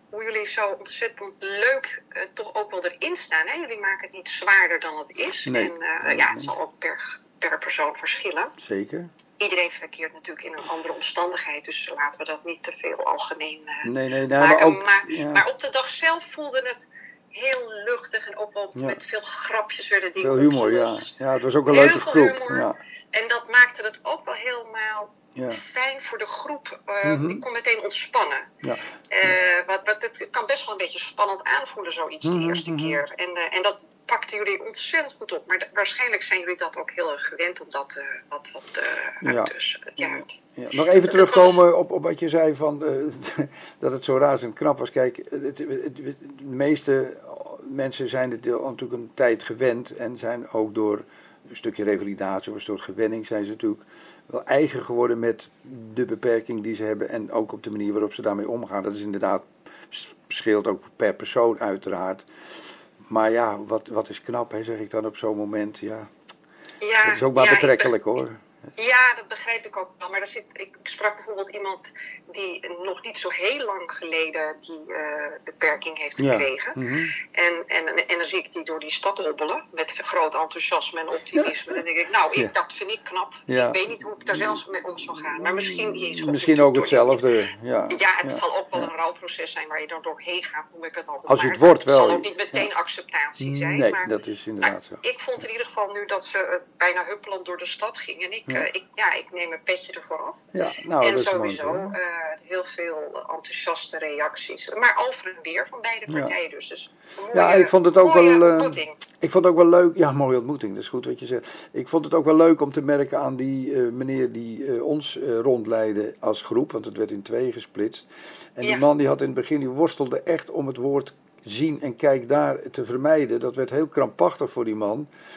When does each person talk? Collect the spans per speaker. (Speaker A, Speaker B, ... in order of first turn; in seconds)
Speaker A: 0.1-8.5, 9.4-21.1, 21.7-28.5, 29.1-40.4, 41.0-41.6, 66.8-67.9, 68.8-87.2, 87.9-100.4, 101.0-109.0
Speaker B: 5.5-6.5, 8.6-9.1, 13.8-15.4, 18.8-19.0, 20.2-22.8, 25.4-25.6, 27.0-27.4, 32.2-33.0, 39.2-62.3, 63.1-66.1, 67.0-68.4, 76.2-77.1, 83.5-83.8, 84.3-84.6, 85.4-88.9, 91.3-92.7, 93.4-95.0, 100.5-101.9, 106.1-106.4, 107.3-125.1